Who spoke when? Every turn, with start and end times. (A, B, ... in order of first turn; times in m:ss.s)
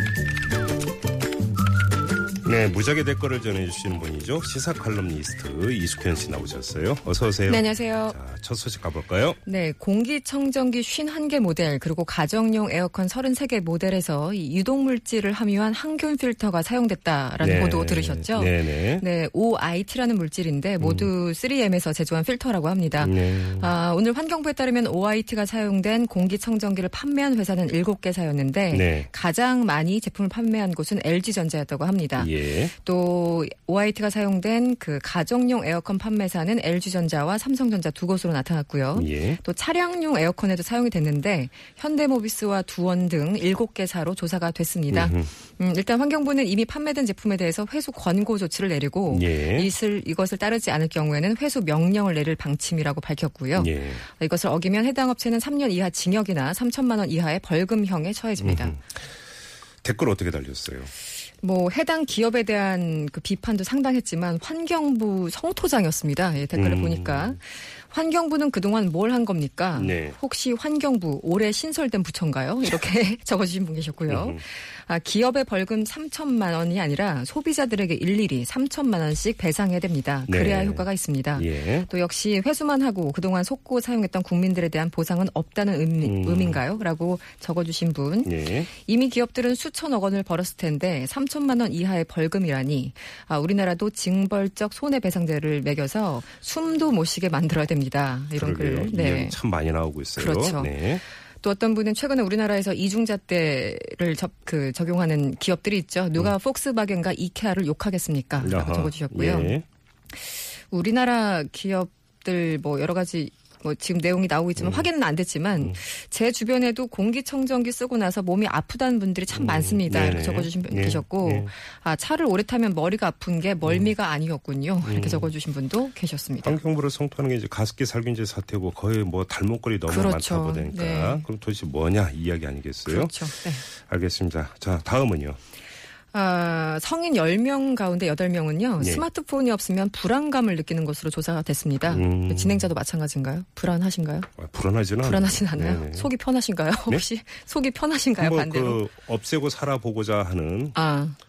0:02.4-0:09.4 A
0:07.5-0:08.2 B
0:09.4-0:58.8 B
0:17.4-0:19.0 A
0:20.8-0:21.1 A
0:23.0-0:23.7 A
0:28.7-0:29.1 A
0:32.2-0:32.7 A
0:39.0-0:39.4 A
0:44.9-0:45.3 A
0:49.1-0:49.7 A
0:53.6-0:54.0 A
0:58.4-0:58.8 A
0:59.8-1:00.9 A
1:01.4-1:39.4 B
1:06.5-1:07.4 A
1:09.8-1:10.2 A
1:14.1-1:14.4 A
1:20.3-1:21.9 A
1:26.0-1:26.6 A
1:28.2-1:28.7 A
1:38.3-1:41.0 A
1:40.2-1:40.8 B
1:41.4-1:49.6 B
1:48.4-1:49.6 A
1:50.2-2:06.6 B
1:54.6-1:54.9 A
1:59.3-2:01.5 A
2:03.6-2:03.9 A
2:04.8-2:05.3 A
2:06.4-2:15.4 A
2:09.9-2:11.2 B
2:12.8-2:13.6 B
2:16.1-2:24.3 B
2:18.8-2:19.0 A
2:21.8-2:22.7 A
2:24.4-2:26.1 A
2:25.0-2:28.8 B
2:28.2-2:30.8 A
2:30.8-2:31.2 B